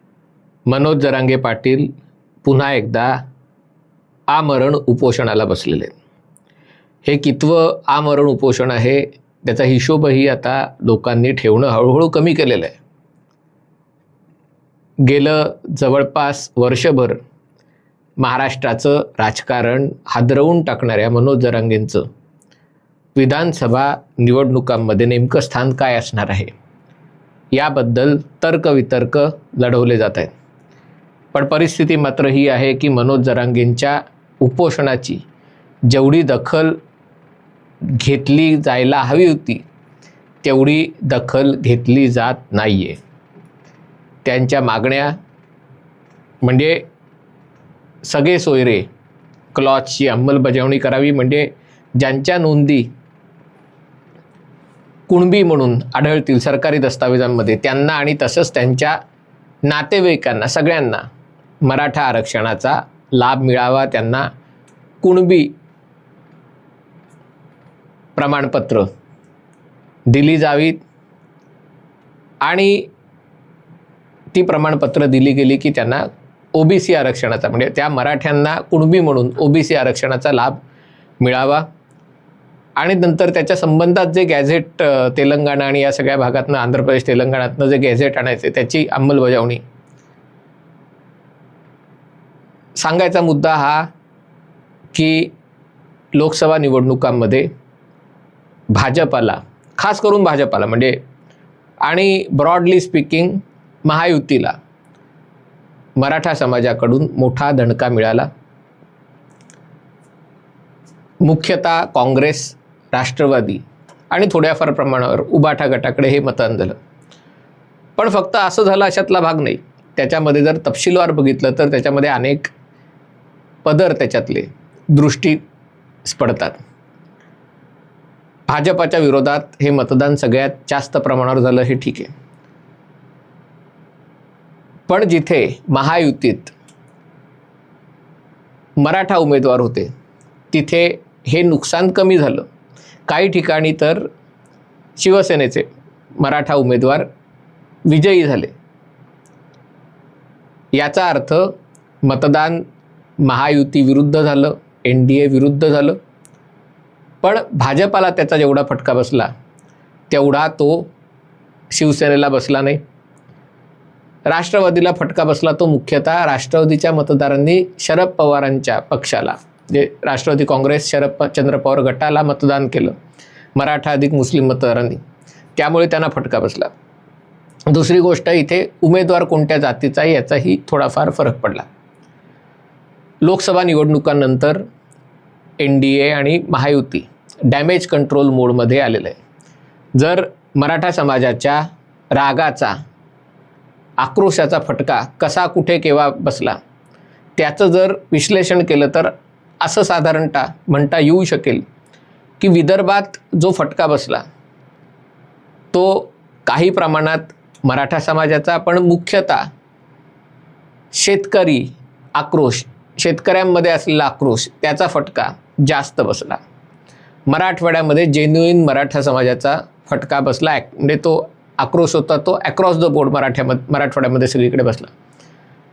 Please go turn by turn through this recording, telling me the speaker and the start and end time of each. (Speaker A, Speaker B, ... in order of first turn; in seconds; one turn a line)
Speaker A: 0.7-1.9
Speaker A: 2.4-3.2
Speaker A: 4.3-5.9
Speaker A: 7.0-12.8
Speaker A: 15.0-17.2
Speaker A: 18.2-22.0
Speaker A: 23.1-26.5
Speaker A: 27.5-30.3
Speaker A: 31.3-35.2
Speaker A: 35.9-36.8
Speaker A: 37.8-39.6
Speaker A: 40.4-43.0
Speaker A: 44.2-45.1
Speaker A: 46.4-46.8
Speaker A: 48.0-48.9
Speaker A: 49.5-52.9
Speaker A: 55.1-59.0
Speaker A: 59.6-61.0
Speaker A: 61.6-64.3
Speaker A: 65.0-65.5
Speaker A: 68.2-68.9
Speaker A: 70.1-70.8
Speaker A: 72.4-72.9
Speaker A: 74.3-80.6
Speaker A: 81.2-81.7
Speaker A: 82.8-89.6
Speaker A: 92.8-93.9
Speaker A: 94.9-95.3
Speaker A: 96.1-97.5
Speaker A: 98.7-101.0
Speaker A: 101.8-104.5
Speaker A: 106.0-108.3
Speaker A: 111.2-116.7
Speaker A: 118.0-122.5
Speaker A: 123.6-125.4
Speaker A: 126.0-126.6
Speaker A: 128.5-132.1
Speaker A: 134.9-136.5
Speaker A: 138.8-139.9
Speaker A: 140.5-142.4
Speaker A: 143.1-144.1
Speaker A: 145.0-145.7
Speaker A: 146.2-147.1
Speaker A: 147.8-148.5
Speaker A: 150.7-151.5
Speaker A: 152.0-152.6
Speaker A: 153.2-156.0
Speaker A: 157.2-159.3
Speaker A: 160.1-160.9
Speaker A: 161.7-162.8
Speaker A: 164.3-172.9
Speaker A: 173.5-175.0
Speaker A: 175.6-176.7
Speaker A: 177.7-181.7
Speaker A: 183.2-184.6
Speaker A: 185.6-189.2
Speaker A: 189.9-192.7
Speaker A: 194.0-196.6
Speaker A: 197.4-201.6
Speaker A: 202.4-204.2
Speaker A: 205.7-209.5
Speaker A: 210.9-216.4
Speaker A: 217.3-224.9